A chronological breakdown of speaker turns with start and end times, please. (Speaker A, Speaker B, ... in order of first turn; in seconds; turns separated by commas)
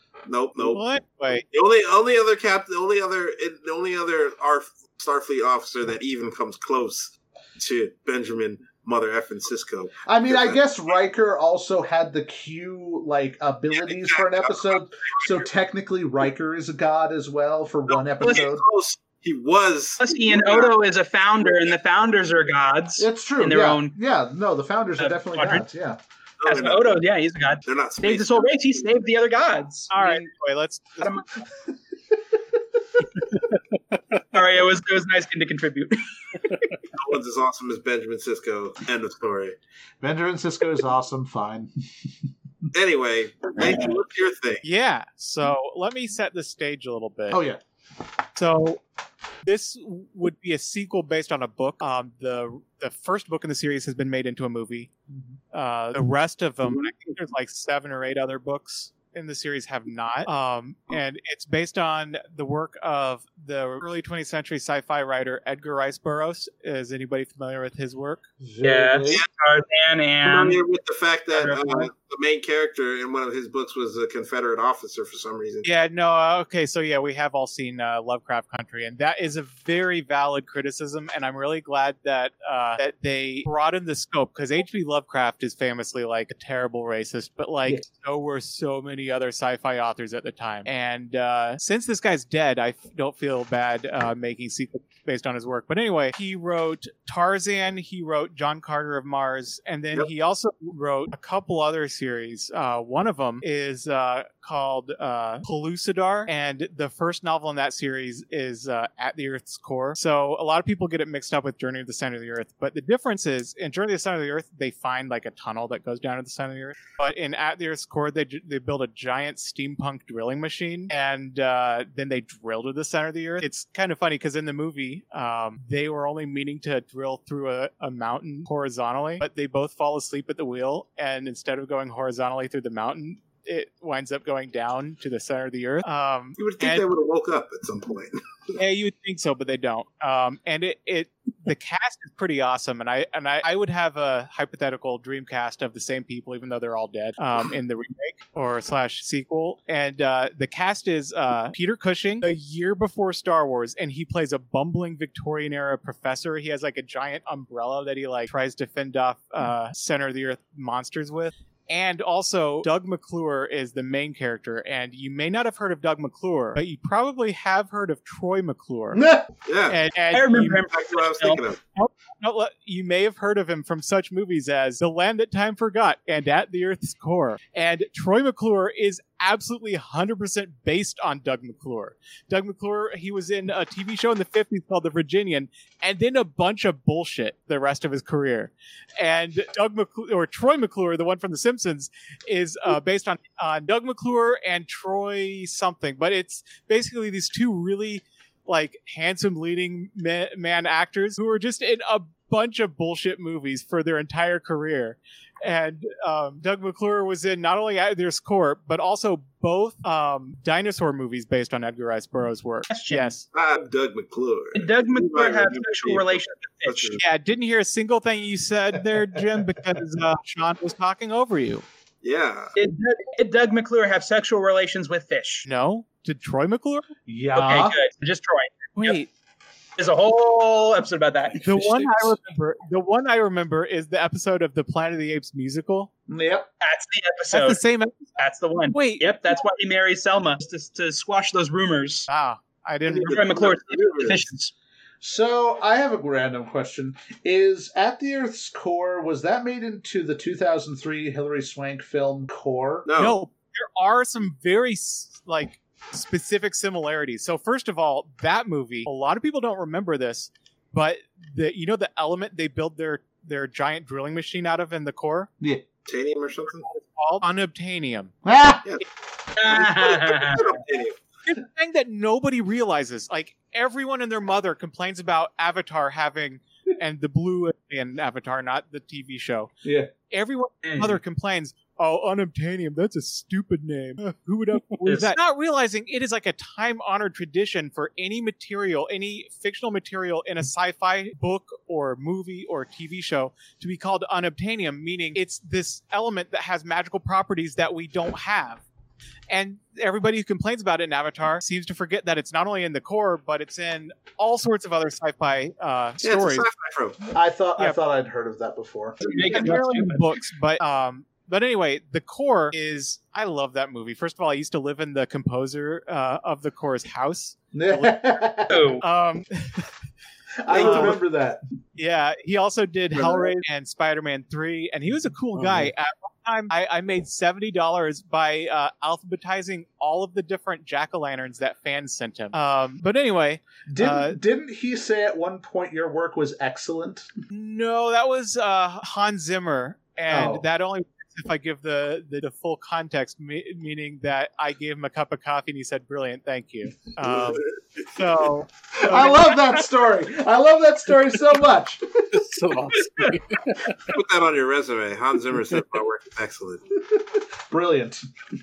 Speaker A: 0.3-0.8, Speaker B: 0.7-1.5, Speaker A: 1.5-10.6, Speaker C: 10.1-18.6, Speaker A: 13.7-15.3, Speaker A: 18.2-20.7, Speaker D: 20.0-23.9, Speaker C: 23.0-26.0, Speaker D: 25.0-25.6, Speaker A: 26.4-27.0, Speaker D: 26.5-30.3, Speaker A: 27.6-28.5, Speaker B: 29.9-31.1, Speaker D: 31.0-31.3, Speaker E: 33.4-34.0, Speaker D: 34.3-36.7, Speaker A: 37.0-39.6, Speaker C: 40.0-41.7, Speaker A: 42.7-44.6, Speaker B: 44.6-47.4, Speaker C: 47.3-47.6, Speaker B: 48.4-48.8, Speaker B: 49.4-54.9, Speaker B: 55.5-68.2, Speaker C: 68.4-69.2, Speaker D: 68.6-70.6, Speaker A: 70.2-75.7, Speaker D: 71.3-71.9, Speaker B: 75.7-136.9, Speaker A: 136.4-138.6, Speaker B: 138.6-169.0, Speaker C: 168.9-169.3, Speaker A: 169.5-169.8, Speaker B: 169.7-170.7, Speaker D: 170.1-171.4, Speaker A: 170.7-171.6, Speaker B: 171.8-213.3, Speaker D: 212.7-213.1, Speaker A: 213.3-217.0, Speaker D: 214.6-217.0, Speaker B: 217.0-221.7, Speaker A: 222.0-222.6, Speaker D: 222.6-225.5, Speaker B: 225.4-226.9, Speaker C: 227.1-227.8, Speaker D: 227.4-229.0, Speaker B: 228.8-229.1, Speaker D: 229.8-231.8, Speaker B: 231.4-235.9, Speaker C: 236.1-236.5, Speaker D: 236.6-237.6, Speaker B: 237.3-238.1, Speaker D: 238.2-242.1, Speaker B: 238.7-239.2, Speaker B: 242.1-243.4, Speaker D: 242.9-244.5, Speaker A: 243.0-244.2, Speaker C: 245.0-252.9, Speaker A: 252.9-253.2, Speaker B: 253.0-265.3, Speaker A: 265.9-266.7, Speaker B: 266.7-268.1, Speaker C: 268.2-268.6, Speaker D: 269.4-270.6, Speaker A: 269.4-270.9, Speaker B: 271.3-279.5, Speaker C: 279.6-279.9, Speaker B: 280.1-298.6, Speaker D: 280.6-281.0, Speaker D: 284.9-285.1, Speaker B: 299.3-306.5, Speaker A: 306.0-307.0, Speaker C: 307.1-309.0, Speaker D: 309.0-310.1, Speaker B: 309.3-318.2, Speaker C: 317.5-318.7, Speaker D: 318.5-318.8, Speaker B: 318.8-319.7, Speaker C: 320.4-321.4, Speaker A: 320.5-320.9, Speaker B: 320.5-321.0, Speaker B: 321.8-334.2, Speaker E: 325.4-325.7, Speaker C: 333.7-337.1, Speaker B: 337.3-349.4, Speaker C: 340.1-340.5, Speaker C: 348.7-352.2, Speaker E: 352.1-354.0, Speaker A: 353.9-356.6, Speaker C: 356.8-358.1